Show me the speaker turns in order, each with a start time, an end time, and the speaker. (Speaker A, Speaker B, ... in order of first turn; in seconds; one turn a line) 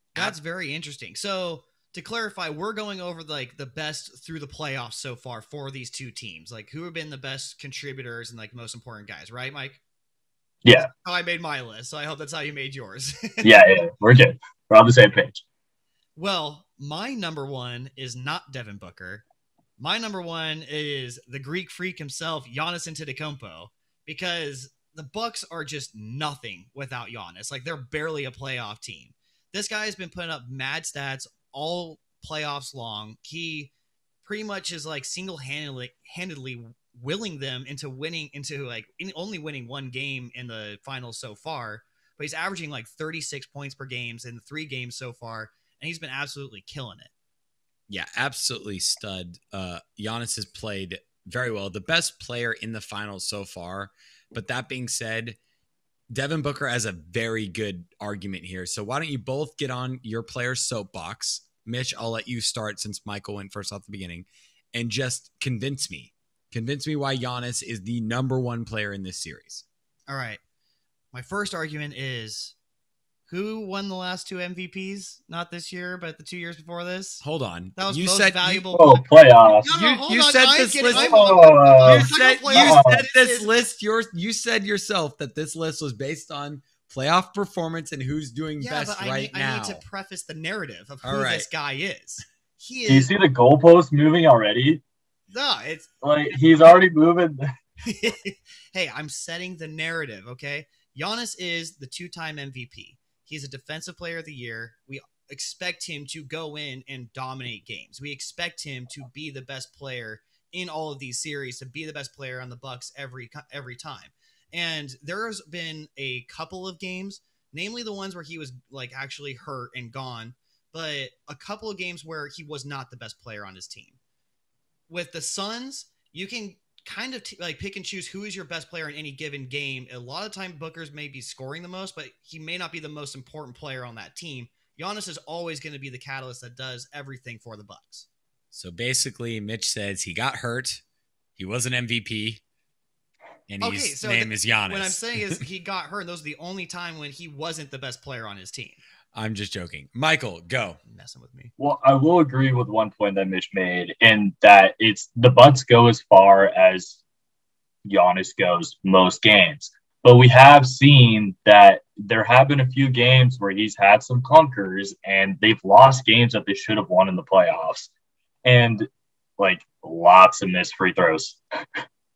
Speaker A: 0.1-9.8
Speaker B: 10.6-10.9
Speaker A: 10.7-13.6
Speaker B: 13.4-15.4
Speaker A: 16.1-19.2
Speaker A: 19.8-33.7
Speaker A: 34.2-47.1
Speaker C: 47.9-55.4
Speaker C: 56.1-69.6
Speaker A: 70.1-70.4
Speaker A: 71.1-72.5
Speaker A: 73.3-77.2
Speaker C: 77.2-78.6
Speaker A: 77.8-83.5
Speaker B: 78.7-79.7
Speaker C: 79.7-81.2
Speaker B: 80.9-83.0
Speaker C: 81.8-89.8
Speaker A: 88.6-93.1
Speaker C: 91.0-91.5
Speaker B: 92.9-94.8
Speaker A: 95.3-95.9
Speaker B: 96.0-97.4
Speaker A: 97.8-124.0
Speaker A: 124.9-138.1
Speaker C: 138.5-140.8
Speaker C: 141.4-142.4
Speaker C: 143.5-145.4
Speaker A: 143.6-148.8
Speaker C: 149.1-150.8
Speaker A: 150.8-151.5
Speaker B: 151.6-157.0
Speaker B: 157.8-167.9
Speaker B: 168.4-171.4